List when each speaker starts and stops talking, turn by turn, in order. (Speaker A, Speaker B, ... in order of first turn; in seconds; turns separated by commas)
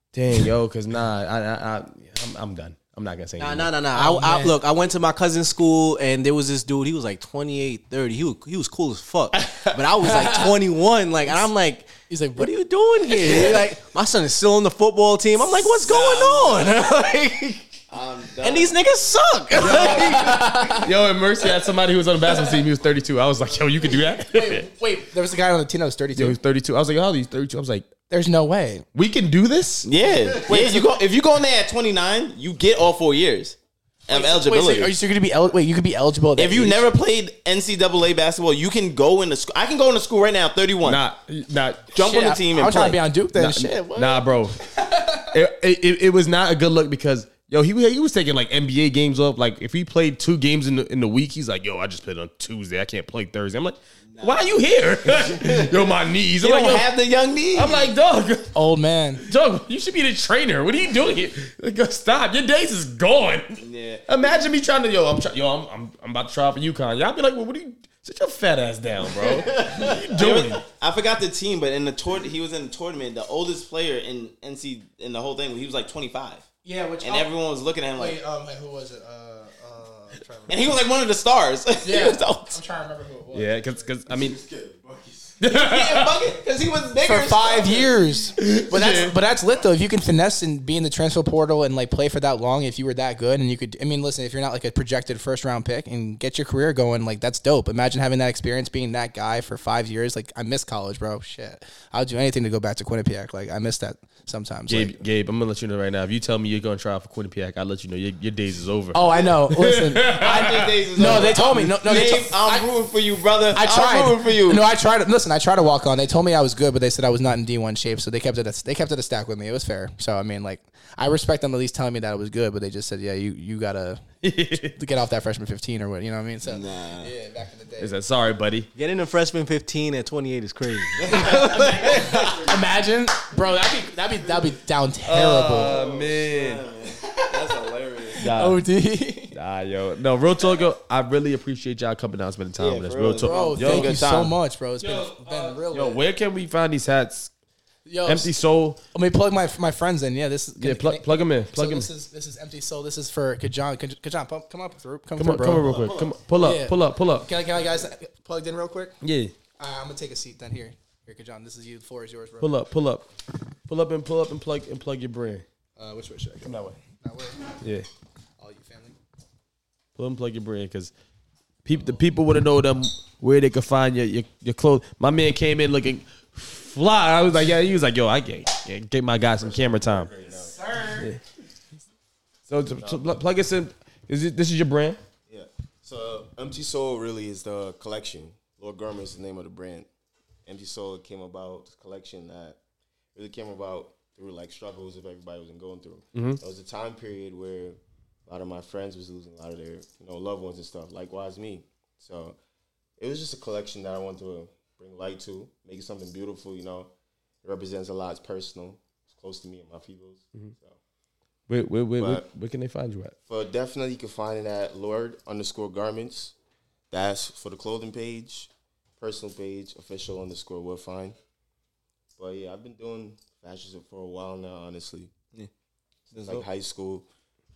Speaker A: 0.1-3.7, Speaker B: 3.4-17.7, Speaker C: 3.9-4.5, Speaker C: 10.0-10.4, Speaker C: 12.1-12.5, Speaker D: 15.8-16.7, Speaker D: 17.9-18.8, Speaker B: 18.4-20.5, Speaker C: 19.6-20.9, Speaker A: 19.6-24.6, Speaker C: 24.2-26.4, Speaker A: 26.1-27.9, Speaker C: 28.1-28.9, Speaker A: 28.9-29.9, Speaker D: 29.8-34.9, Speaker C: 30.4-30.9, Speaker C: 34.1-36.9, Speaker D: 36.4-41.0, Speaker A: 40.8-42.0, Speaker D: 41.9-43.0, Speaker C: 42.0-45.2, Speaker A: 43.3-56.9, Speaker D: 54.1-54.4, Speaker D: 55.4-55.7, Speaker D: 56.4-57.9, Speaker A: 57.5-58.5, Speaker C: 58.5-59.2, Speaker A: 59.2-70.6, Speaker D: 63.6-64.0, Speaker C: 69.2-70.0, Speaker D: 70.2-76.5, Speaker C: 76.6-77.3, Speaker D: 77.0-78.2, Speaker C: 77.9-80.7, Speaker D: 80.5-82.6, Speaker C: 81.8-83.9, Speaker A: 83.3-84.4, Speaker E: 84.1-85.4, Speaker A: 85.4-86.2, Speaker D: 85.5-88.0, Speaker C: 87.0-105.0, Speaker A: 88.4-89.2, Speaker A: 104.7-111.7, Speaker C: 108.9-112.7, Speaker D: 110.1-114.7, Speaker C: 113.5-127.9, Speaker A: 124.2-124.7, Speaker D: 126.4-127.1, Speaker A: 127.8-128.7, Speaker B: 128.7-132.3, Speaker C: 131.1-135.8, Speaker E: 131.2-132.6, Speaker A: 135.1-136.6, Speaker E: 135.6-138.2, Speaker D: 136.3-137.8, Speaker A: 138.2-138.6, Speaker C: 138.2-139.3, Speaker A: 139.3-144.0, Speaker D: 142.6-144.3, Speaker C: 143.2-146.0, Speaker A: 144.8-147.3, Speaker C: 147.8-148.3, Speaker A: 148.0-148.8, Speaker C: 148.9-158.9, Speaker A: 150.6-151.9, Speaker A: 155.2-157.3, Speaker A: 159.0-159.3, Speaker C: 159.6-162.6, Speaker A: 162.4-163.1, Speaker A: 163.7-165.4, Speaker C: 165.8-167.5, Speaker A: 166.4-166.8, Speaker A: 167.6-167.9, Speaker C: 168.4-169.0, Speaker A: 169.9-170.9, Speaker A: 171.6-180.1, Speaker E: 179.3-180.6, Speaker C: 180.3-181.1, Speaker A: 182.5-185.0, Speaker E: 182.7-183.1, Speaker E: 185.3-189.9, Speaker E: 190.4-192.6, Speaker E: 193.1-202.4, Speaker A: 196.1-196.4, Speaker E: 203.0-206.9, Speaker E: 207.4-210.8, Speaker A: 211.5-213.1, Speaker E: 212.0-212.3, Speaker E: 213.3-216.3, Speaker E: 216.9-221.2, Speaker E: 222.2-225.1, Speaker E: 226.1-227.1, Speaker D: 226.1-226.4